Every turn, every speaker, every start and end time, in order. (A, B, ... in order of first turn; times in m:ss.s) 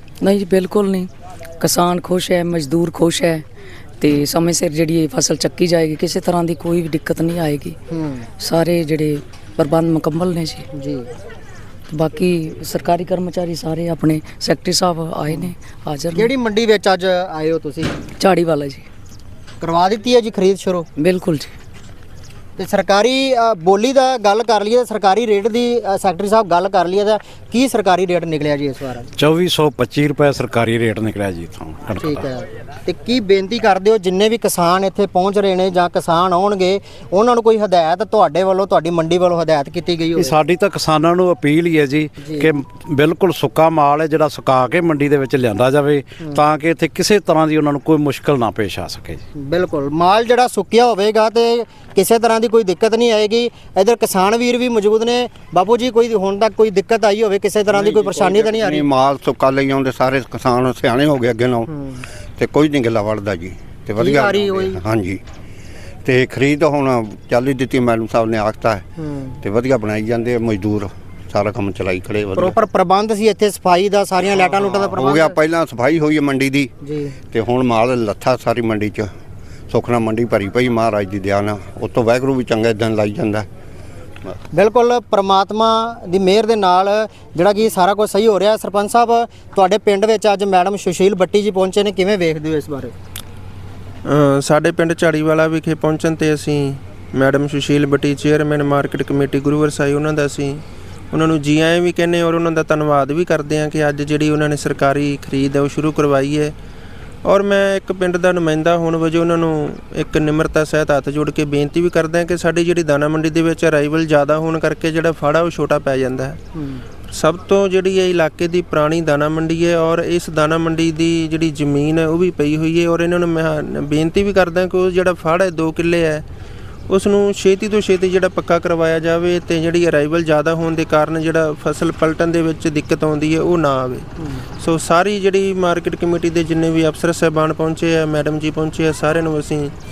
0:00.2-0:03.4 A
0:04.0-0:07.8 A
0:07.9-0:08.3 B
0:08.4-0:10.6 A
0:10.7-0:11.1 B
0:11.9-0:16.3 A
0:16.1-0:17.9 B
0:18.2-0:18.8 A
0:19.6-0:20.9 B
0:21.0-0:21.5 A
0:22.6-0:29.1 B
0:29.2-0:32.2 C
0:32.0-0:40.4 B
0:40.2-0:49.2 C
0:42.2-0:42.5 B
0:49.4-0:58.8 B
0:57.7-1:01.7 D
1:01.7-1:02.0 B
1:02.4-1:05.2 D
1:04.0-1:04.8 B
1:06.0-1:08.8 D
1:09.0-1:09.4 B
1:09.4-1:12.6 D
1:12.4-1:15.3 B
1:14.3-1:16.7 D
1:16.8-1:17.1 B
1:17.3-1:19.1 D
1:19.7-1:23.5 D
1:24.5-1:32.9 B
1:34.0-1:46.5 E
1:47.2-1:56.4 E
1:56.6-1:56.8 B
1:57.1-2:06.2 E
2:06.9-2:14.1 E
2:14.6-2:19.7 E